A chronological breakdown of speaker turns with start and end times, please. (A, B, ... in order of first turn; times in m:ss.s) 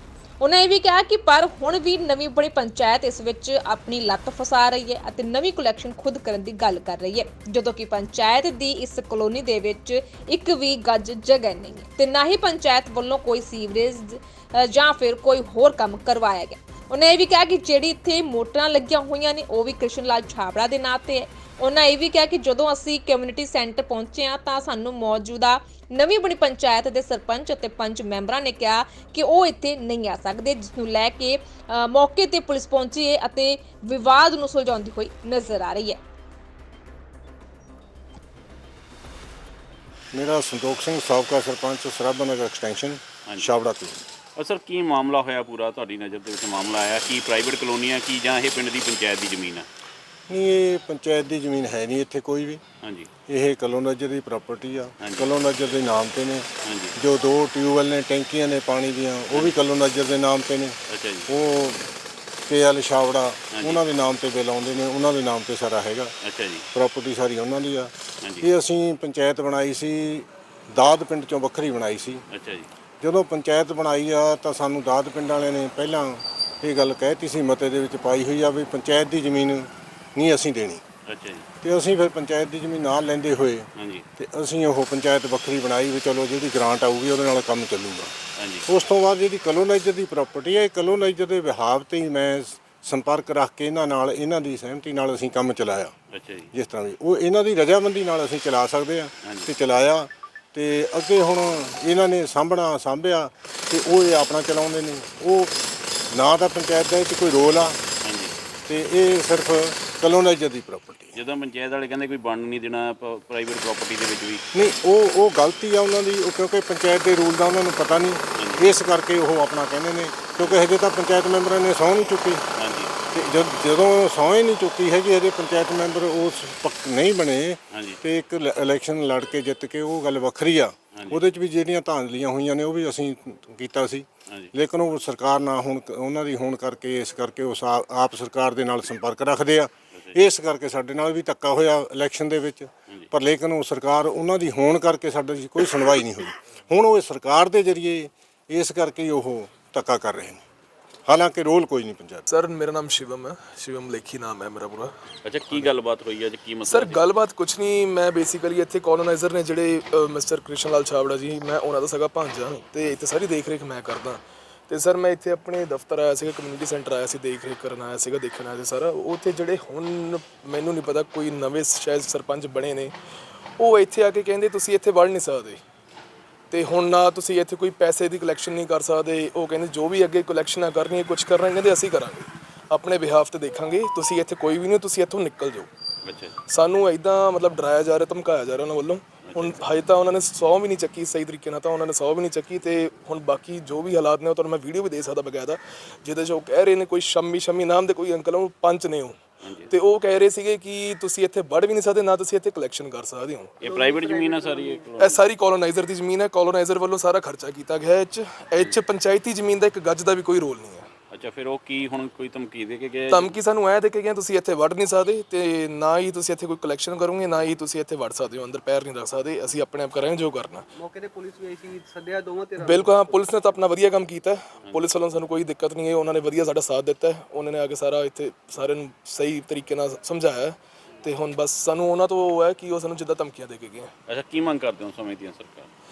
0:00.4-0:36.0 A
0:40.1-0:44.0 B
0:43.3-0:43.6 C
0:44.4-0:49.6 C
0:50.3-0:52.6 B
0:52.8-0:53.1 C
0:53.3-1:01.8 B
0:55.0-0:55.3 C
0:56.6-0:57.0 C
0:59.3-0:59.6 C
1:00.9-1:01.3 C
1:02.5-1:06.1 B
1:03.5-1:03.8 C
1:06.2-1:06.7 C
1:06.7-1:12.2 B
1:08.2-1:08.5 C
1:12.3-1:12.7 C
1:13.0-1:20.8 B
1:21.0-1:21.4 C
1:21.6-1:28.1 B
1:23.8-1:24.0 C
1:28.4-1:28.7 C
1:28.7-1:35.9 B
1:36.1-1:36.5 C
1:36.5-1:45.5 B
1:39.2-1:39.5 C
1:46.1-1:47.8 B
1:48.0-1:48.3 C
1:48.6-1:51.2 B
1:51.1-1:54.4 C
1:54.5-2:02.4 B
1:58.4-1:58.8 C
2:02.5-2:02.9 C
2:03.1-2:30.4 B
2:07.7-2:08.0 C
2:10.9-2:11.2 C
2:31.0-2:32.3 B
2:32.3-2:34.9 D
2:35.2-2:37.1 C
2:36.7-2:52.9 D
2:53.6-2:55.6 D
2:56.5-3:05.7 D
3:06.0-3:06.4 C
3:06.5-3:23.6 D
3:09.2-3:09.6 C
3:19.4-3:19.7 C
3:23.6-3:25.2 C
3:23.6-3:24.9 E
3:25.0-3:30.9 D
3:31.1-3:33.4 C
3:33.1-3:40.7 D
3:40.8-3:43.4 E
3:42.6-3:53.9 D
3:54.1-3:55.7 C